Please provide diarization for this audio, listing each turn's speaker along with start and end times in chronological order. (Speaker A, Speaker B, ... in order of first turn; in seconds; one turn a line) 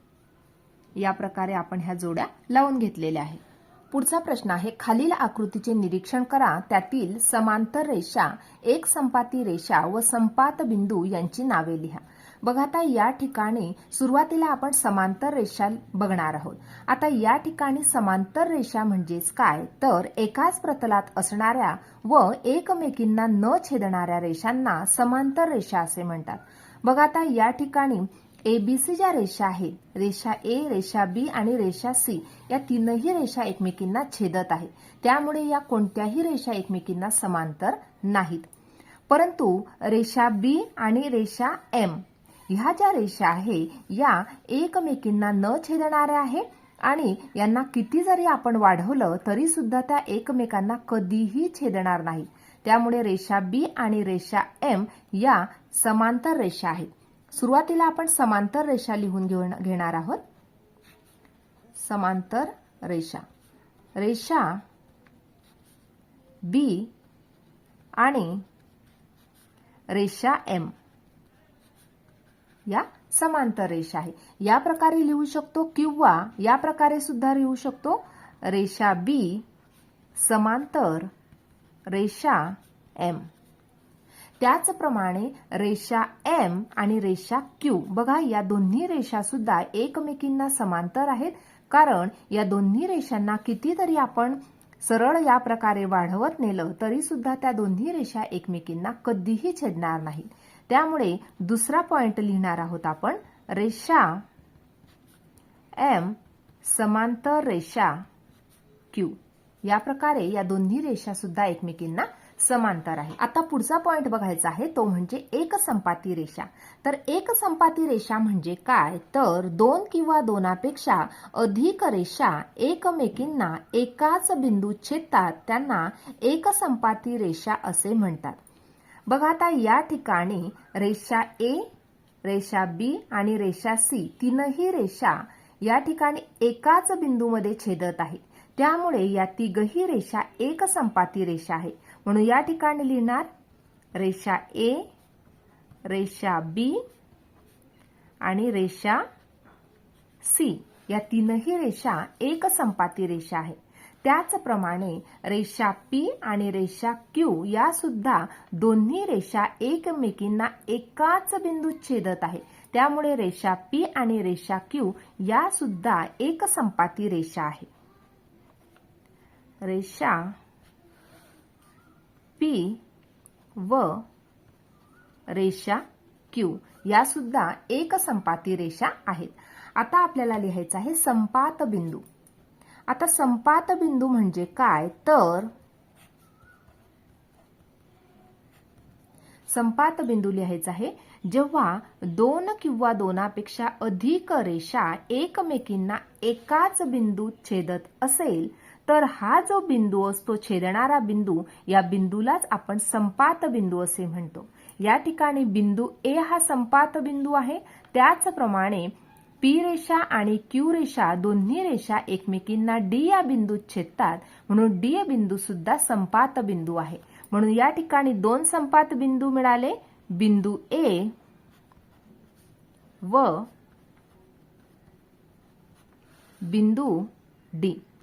Speaker A: 1.0-38.5
Speaker A: 39.1-60.2
Speaker A: 61.8-63.2
Speaker A: 64.0-64.6
Speaker A: 66.4-66.9
Speaker A: 68.0-68.4
Speaker A: 69.9-70.7
Speaker A: 72.7-79.4
Speaker A: 80.2-81.1
Speaker A: 81.9-83.3
Speaker A: 84.4-104.2
Speaker A: 105.8-108.0
Speaker A: 108.9-128.4
Speaker A: 129.1-131.7
Speaker A: 132.2-143.3
Speaker A: 144.0-144.9
Speaker A: 145.9-146.8
Speaker A: 148.2-149.0
Speaker A: 150.2-167.7
Speaker A: 169.6-170.4
Speaker A: 172.4-172.8
Speaker A: 173.6-174.1
Speaker A: 175.3-182.0
Speaker A: 182.9-185.5
Speaker A: 189.5-221.1
Speaker A: 223.0-223.5
Speaker A: 226.4-227.8